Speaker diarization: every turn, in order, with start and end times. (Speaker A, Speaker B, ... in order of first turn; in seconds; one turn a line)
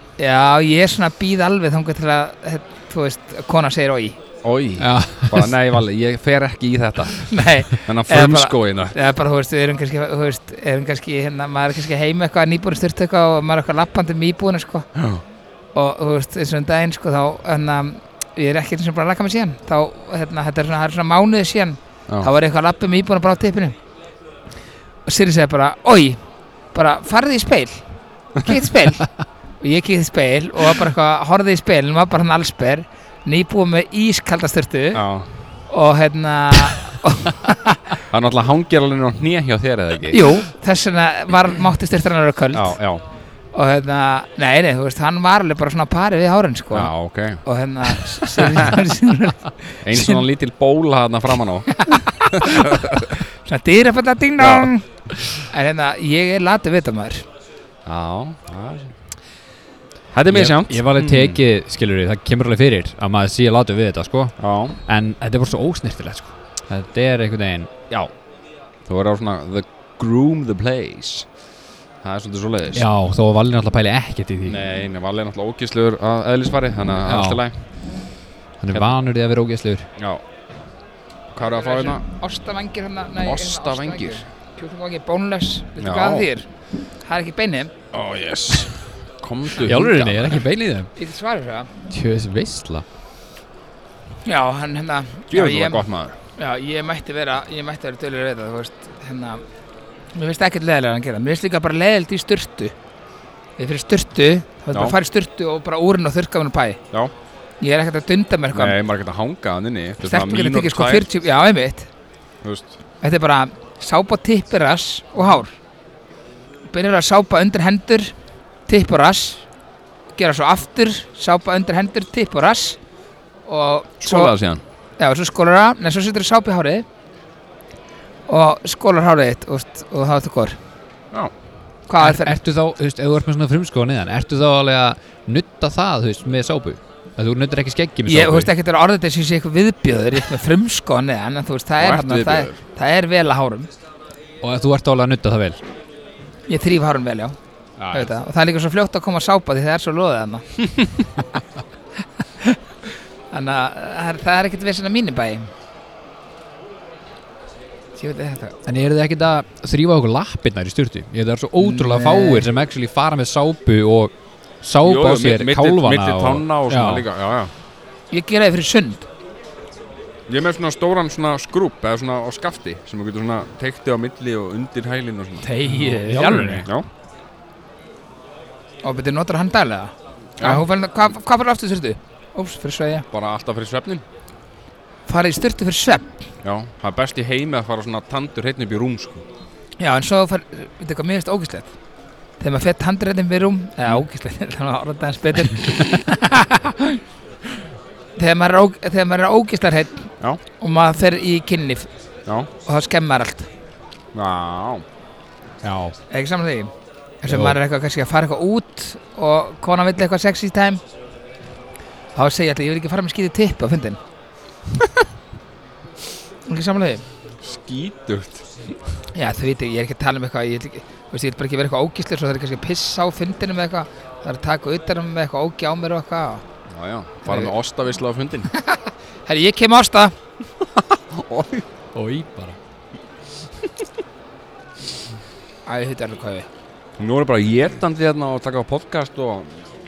Speaker A: 0.2-4.2
Speaker B: 4.4-8.9
Speaker C: 4.8-5.5
Speaker A: 7.3-14.9
Speaker B: 14.9-15.2
Speaker A: 15.7-23.8
Speaker A: 25.1-26.2
Speaker A: 26.7-27.8
Speaker A: 28.4-29.1
Speaker A: 29.6-35.0
Speaker B: 34.9-35.3
Speaker A: 35.7-38.0
Speaker B: 38.1-40.3
Speaker A: 40.1-42.8
Speaker B: 42.5-43.0
Speaker A: 43.5-50.2
Speaker B: 46.7-47.4
Speaker B: 48.4-48.7
Speaker B: 49.8-53.2
Speaker A: 51.7-57.2
Speaker B: 54.4-54.7
Speaker B: 57.9-58.9
Speaker B: 60.1-61.4
Speaker C: 60.3-67.7
Speaker B: 64.4-64.8
Speaker B: 68.8-71.3
Speaker B: 72.0-72.8
Speaker C: 72.7-74.6
Speaker B: 74.5-77.5
Speaker C: 77.0-77.4
Speaker C: 78.6-79.9
Speaker B: 80.0-80.2
Speaker B: 81.3-82.0
Speaker A: 81.4-86.5
Speaker B: 83.2-84.2
Speaker B: 85.8-86.3
Speaker A: 87.0-87.7
Speaker B: 87.9-90.4
Speaker C: 89.6-90.9
Speaker A: 91.0-91.7
Speaker C: 91.9-92.8
Speaker A: 94.2-95.8
Speaker B: 95.3-96.2
Speaker A: 96.4-99.4
Speaker A: 100.1-102.7
Speaker A: 103.6-106.8
Speaker A: 107.6-108.8
Speaker B: 108.5-111.1
Speaker A: 110.0-111.9
Speaker B: 112.4-112.7
Speaker A: 113.0-115.5
Speaker A: 116.7-118.1
Speaker A: 118.7-119.4
Speaker A: 120.2-122.8
Speaker A: 123.5-124.3
Speaker B: 124.0-124.6
Speaker A: 125.0-126.8
Speaker A: 128.3-130.6
Speaker A: 131.9-132.3
Speaker C: 132.0-138.5
Speaker A: 138.1-143.7
Speaker B: 141.8-142.6
Speaker C: 144.4-145.6
Speaker A: 146.5-147.3
Speaker C: 147.8-148.1
Speaker A: 147.9-150.4
Speaker A: 153.3-155.5
Speaker A: 157.9-158.6
Speaker C: 158.7-167.0
Speaker A: 161.6-162.5
Speaker B: 164.8-167.5
Speaker A: 168.1-169.1
Speaker B: 170.3-175.5
Speaker A: 175.4-176.7
Speaker C: 175.6-176.7
Speaker B: 176.6-176.9
Speaker A: 178.8-183.1
Speaker B: 180.4-180.7
Speaker B: 183.1-184.0
Speaker A: 185.1-186.1
Speaker B: 186.4-189.2
Speaker A: 189.8-191.7
Speaker A: 192.4-197.0
Speaker A: 198.2-201.9
Speaker A: 202.6-203.5
Speaker B: 204.1-204.8
Speaker C: 205.6-205.9
Speaker A: 206.1-206.7
Speaker A: 207.2-210.8
Speaker C: 207.3-207.6
Speaker A: 212.1-214.0
Speaker A: 216.5-217.0
Speaker B: 217.4-218.4
Speaker A: 219.1-226.4
Speaker B: 226.7-228.5
Speaker A: 227.2-227.5
Speaker A: 228.5-230.1
Speaker B: 230.6-231.6
Speaker C: 231.9-232.6
Speaker A: 235.7-236.5
Speaker B: 237.0-239.7